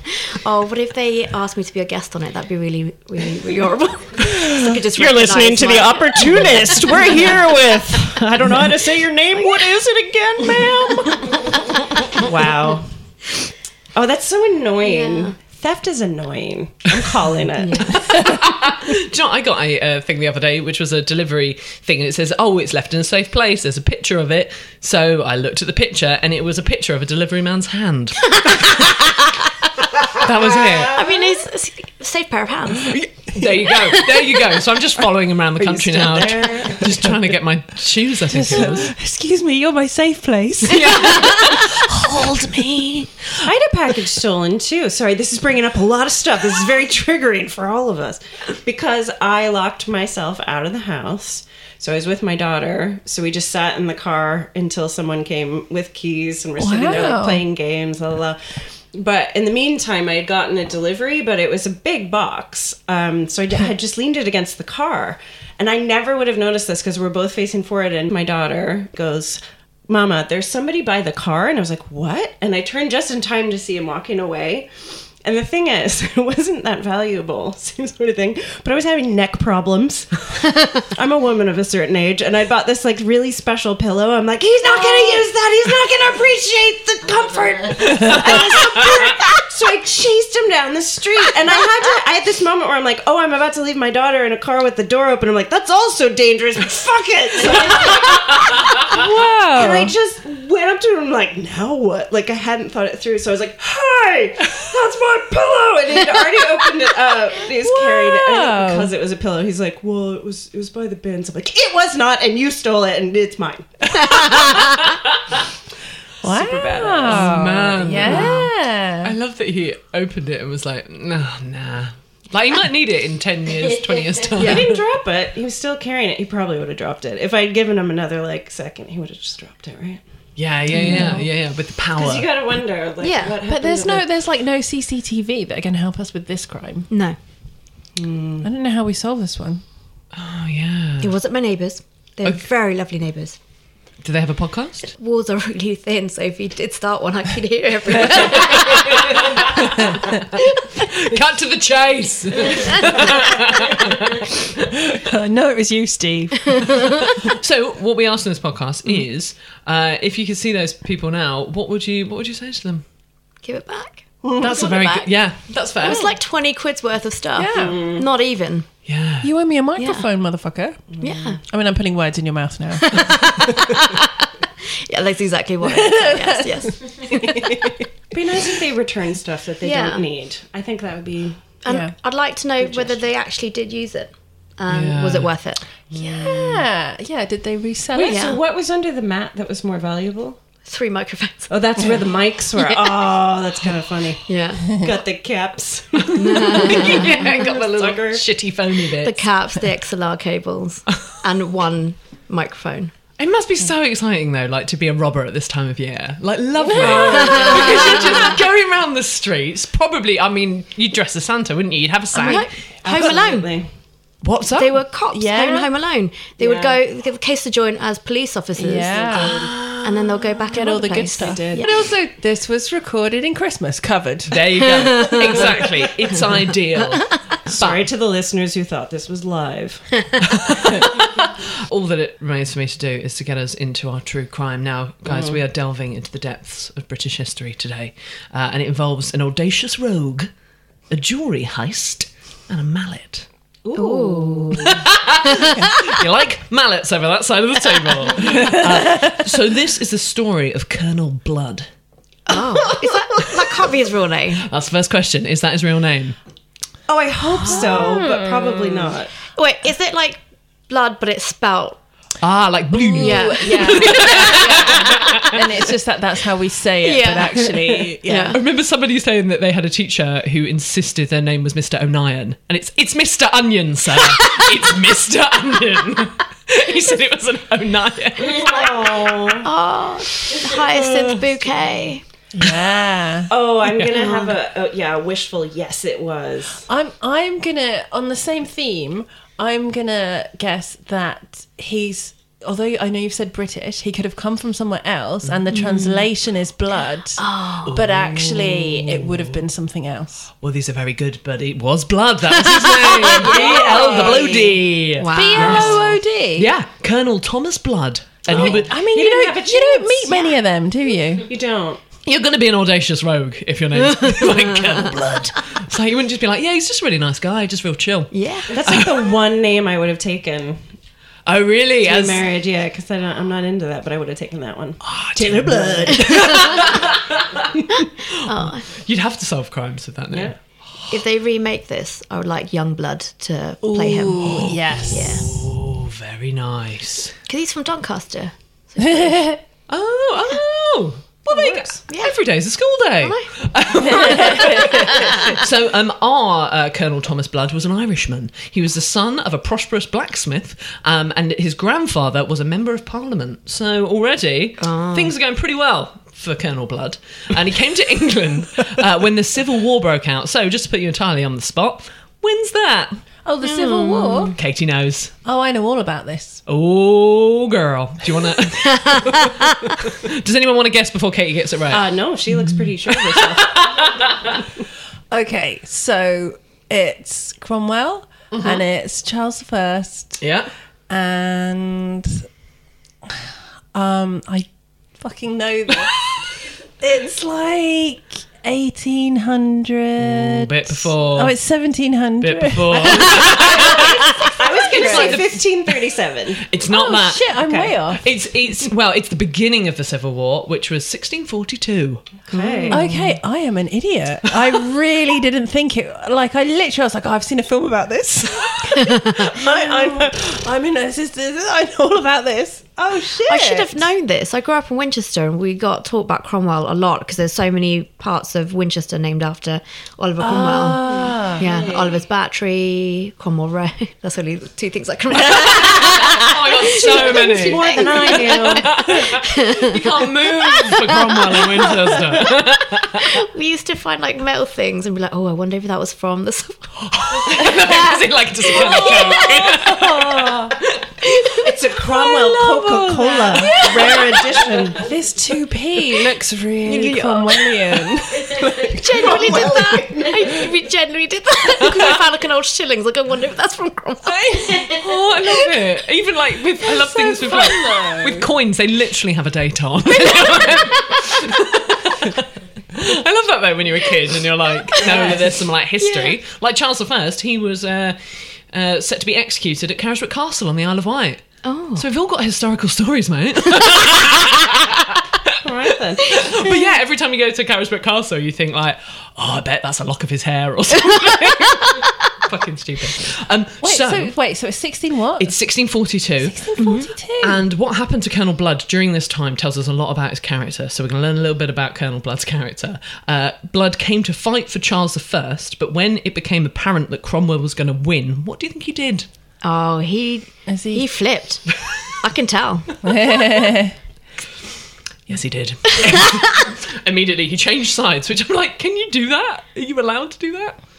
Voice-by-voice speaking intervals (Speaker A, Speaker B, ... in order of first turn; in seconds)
Speaker A: 0.3-7.3, 14.8-15.3, 17.6-18.0, 30.9-34.6, 114.0-114.8, 118.0-118.5, 124.4-124.7, 130.8-131.2, 133.0-133.4, 136.9-137.2, 141.0-143.3, 144.9-150.8, 163.4-165.1, 165.8-168.7, 169.8-170.1, 171.0-171.4, 172.9-174.1, 174.9-177.7, 179.6-180.0, 181.6-186.7, 188.0-188.4, 190.6-191.5, 194.3-194.8, 196.2-197.4, 199.0-202.9, 207.2-208.1, 212.1-213.5, 214.5-221.8, 224.8-225.4, 243.7-245.9, 252.3-254.4, 259.3-261.8, 262.9-264.7, 266.8-268.4, 279.4-282.0, 283.9-284.4, 295.5-296.1, 297.2-297.8, 302.6-304.3, 305.0-305.9, 318.1-318.5, 326.1-326.4, 327.8-328.7, 330.9-335.4, 337.3-339.4, 341.9-342.2, 343.0-343.3, 343.8-345.3, 354.6-355.1, 363.4-364.3, 413.3-432.3, 433.0-437.9, 438.5-439.2, 441.1-441.4, 446.6-447.8, 448.6-454.8, 464.7-465.2, 465.8-466.2, 471.4-471.8, 486.6-486.9, 499.4-503.4
Speaker B: 4.3-11.2, 12.1-12.9, 13.9-17.9, 35.6-36.9, 43.4-74.7, 75.2-113.9, 116.2-117.4, 124.4-130.0, 131.9-134.1, 137.9-138.5, 167.5-168.1, 170.9-171.4, 178.1-181.4, 182.6-183.1, 187.9-190.4, 191.5-198.2, 206.7-208.3, 212.8-213.7, 216.4-216.8, 218.9-219.5, 221.2-221.7, 227.5-229.9, 235.1-235.4, 243.6-244.1, 256.9-259.1, 278.2-279.5, 283.3-286.6, 303.2-304.6, 308.2-310.1, 311.3-311.8, 318.5-320.6, 321.8-326.4, 371.7-373.8, 394.4-396.4, 402.3-402.9, 409.8-410.1, 421.4-421.9, 426.8-428.7, 441.4-444.9, 449.1-450.1, 475.4-476.2
Speaker C: 18.1-29.3, 30.1-31.0, 32.9-38.9, 40.7-41.8, 114.1-114.9, 117.1-118.5, 119.0-124.8, 130.4-132.3, 140.1-141.1, 144.0-144.9, 148.1-149.7, 150.8-154.5, 157.2-162.8, 164.4-166.1, 168.8-169.3, 184.7-185.3, 196.0-199.3, 203.2-212.5, 214.2-214.8, 219.3-220.6, 224.3-227.6, 230.3-240.3, 240.9-243.3, 244.6-251.7, 254.4-256.1, 262.2-265.4, 268.3-278.5, 297.7-299.4, 300.4-308.7, 312.0-319.1, 321.2-322.2, 324.9-327.4, 328.1-330.3, 335.0-337.1, 339.7-363.0, 364.4-365.1, 366.5-371.9, 373.4-374.3, 378.3-378.6, 380.2-380.5, 390.0-391.3, 392.2-395.7, 396.5-403.0, 426.0-433.1, 436.9-441.2, 454.8-468.0, 468.5-471.2, 471.7-475.4, 476.0-484.1, 485.2-486.5, 487.2-499.1, 505.1-510.6
Speaker D: 38.3-43.1, 56.6-57.4, 85.0-85.2, 98.9-99.9, 107.6-108.9, 116.2-119.1, 130.8-131.2, 133.4-136.9, 138.4-139.6, 154.9-157.1, 165.8-166.1, 167.3-167.8, 169.2-170.9, 171.5-173.1, 175.6-177.7, 181.7-181.9, 185.9-188.3, 206.6-207.8, 215.1-215.7, 218.6-219.4, 220.5-225.5, 244.1-244.5, 248.2-249.2, 257.6-258.9, 262.7-268.4, 282.3-283.3, 286.7-300.3, 305.1-306.5, 308.3-311.3, 325.2-325.9, 333.6-335.2, 338.9-339.3, 341.3-341.6, 343.8-345.3, 363.2-364.4, 365.2-366.4, 375.1-380.2, 380.9-382.2, 383.1-384.5, 385.0-385.9, 386.8-395.2, 396.7-398.1, 402.7-413.9, 420.2-421.5, 438.6-440.5, 441.8-449.9, 454.0-454.7, 456.6-458.3, 483.6-485.4, 486.2-487.4, 500.5-500.9, 502.8-503.7